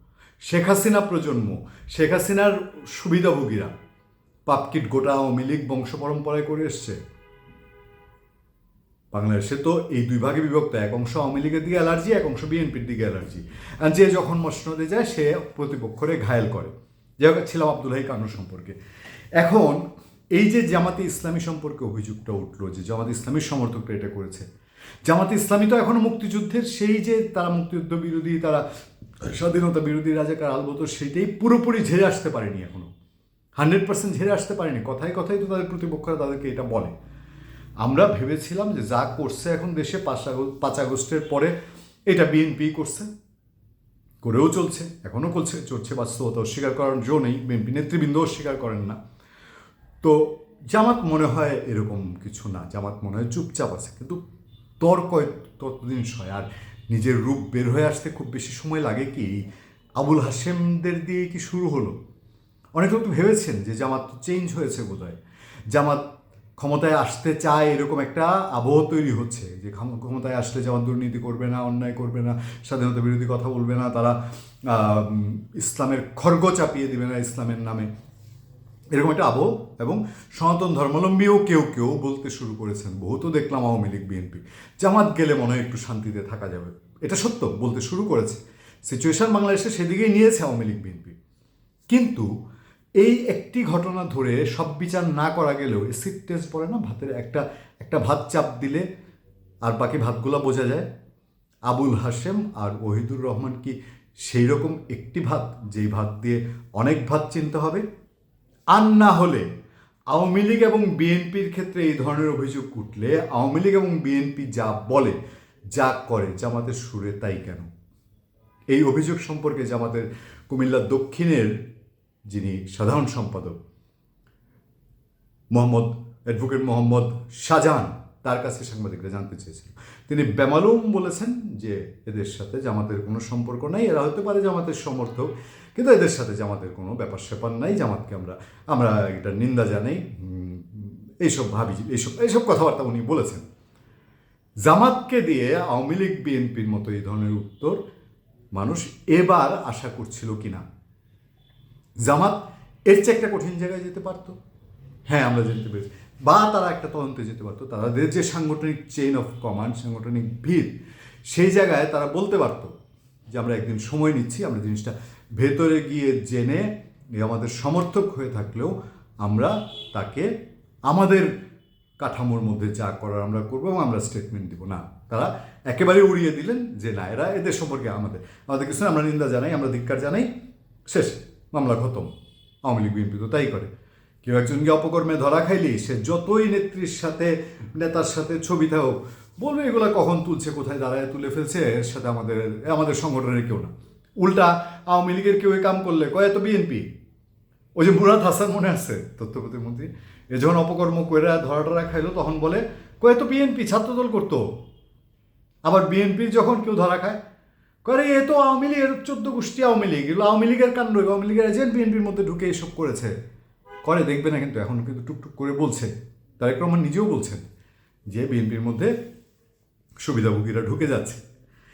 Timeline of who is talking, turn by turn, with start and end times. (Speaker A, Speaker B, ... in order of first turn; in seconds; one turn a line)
Speaker A: 0.4-3.7
Speaker A: 4.5-7.0
Speaker A: 9.1-18.7
Speaker A: 19.4-24.4
Speaker A: 25.0-28.6
Speaker A: 29.2-32.9
Speaker A: 33.6-36.9
Speaker A: 37.8-41.5
Speaker A: 42.1-43.1
Speaker A: 44.2-49.0
Speaker A: 50.0-54.2
Speaker A: 54.8-59.5
Speaker A: 60.0-61.9
Speaker A: 62.7-65.2
Speaker A: 65.7-66.0
Speaker A: 66.6-77.9
Speaker A: 78.9-91.1
Speaker A: 91.9-92.3
Speaker A: 93.0-98.8
Speaker A: 99.6-100.9
Speaker A: 101.7-107.8
Speaker A: 108.7-109.5
Speaker A: 110.1-115.2
Speaker A: 115.7-117.7
Speaker A: 118.7-121.6
Speaker A: 122.3-123.6
Speaker A: 125.5-143.4
Speaker A: 144.6-147.8
Speaker A: 148.5-150.6
Speaker A: 152.0-154.3
Speaker A: 155.1-160.8
Speaker A: 161.3-162.7
Speaker A: 163.3-170.3
Speaker A: 170.9-171.3
Speaker A: 172.0-180.3
Speaker A: 180.9-182.1
Speaker A: 182.6-183.7
Speaker A: 184.2-196.8
Speaker A: 197.8-204.5
Speaker A: 205.6-207.2
Speaker A: 207.8-213.1
Speaker A: 213.8-217.4
Speaker A: 218.1-218.9
Speaker A: 220.0-221.2